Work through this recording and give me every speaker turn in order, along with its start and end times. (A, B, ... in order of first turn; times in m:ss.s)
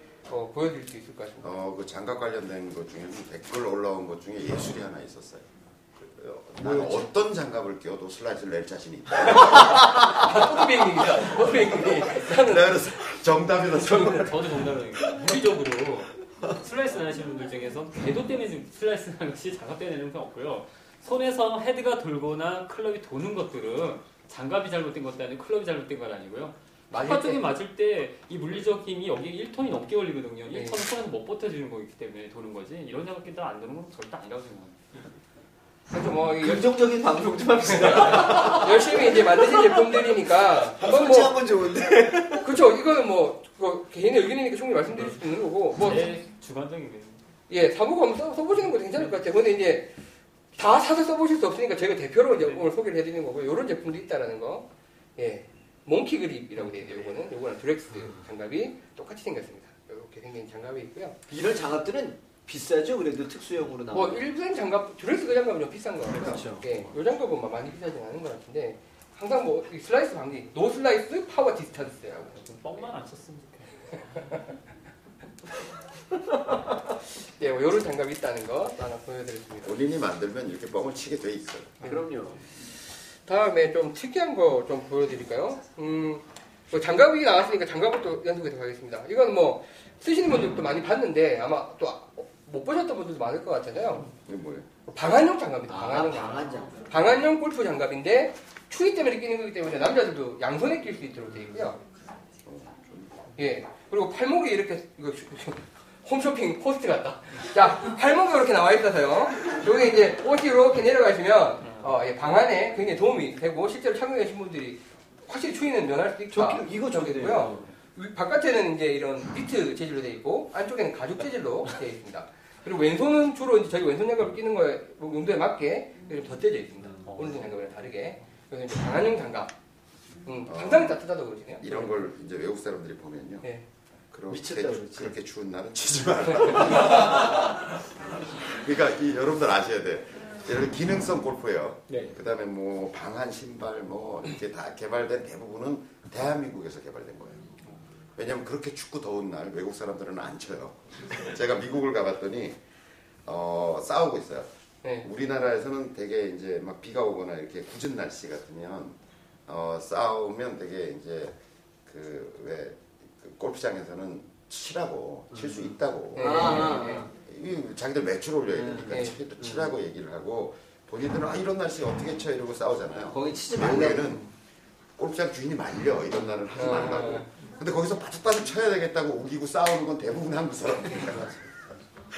0:00.3-0:01.5 A
0:01.4-0:14.6 B
0:06.6-0:07.0 A
0:09.5-0:13.0 A
0:13.7-0:14.3 A
0:14.0-0:34.9 C
0:26.9-0:27.4 A
0:30.5-0:30.8 A
0:35.9-0:36.9 A
0:36.4-0:42.6 D
0:37.6-0:41.4 A
0:42.4-0:46.1 A
0:45.8-0:47.2 C
0:47.5-0:49.9 A
0:50.5-0:54.6 A
0:52.4-0:52.6 C
0:55.2-1:01.2 A
1:01.3-1:04.2 D
1:03.9-1:12.4 A
1:06.1-1:06.9 D
1:12.4-1:14.4 C
1:17.2-1:19.7 A
1:19.6-1:21.8 B
1:21.8-1:22.4 D
1:23.2-1:34.1 A
1:34.2-1:34.6 B
1:34.9-1:41.8 A
1:35.7-1:36.8 D
1:42.4-1:43.3 B
1:43.4-2:09.5 A
1:51.6-1:51.9 C
1:56.3-1:57.7 D
2:07.0-2:07.6 C
2:10.2-2:12.0 A
2:10.4-2:11.0 B
2:11.6-2:13.4 B
2:14.1-2:17.6 B
2:14.3-2:15.1 D
2:16.2-2:16.7 A
2:18.3-2:27.5 B
2:28.2-2:32.6 B
2:33.2-2:34.5 B
2:35.0-2:54.3 B
2:45.3-2:47.1 D
2:46.1-2:47.0 A
2:48.5-2:49.7 D
2:48.9-2:49.2 A
2:53.1-2:54.2 D
2:55.0-3:01.6 B
2:56.6-2:57.3 A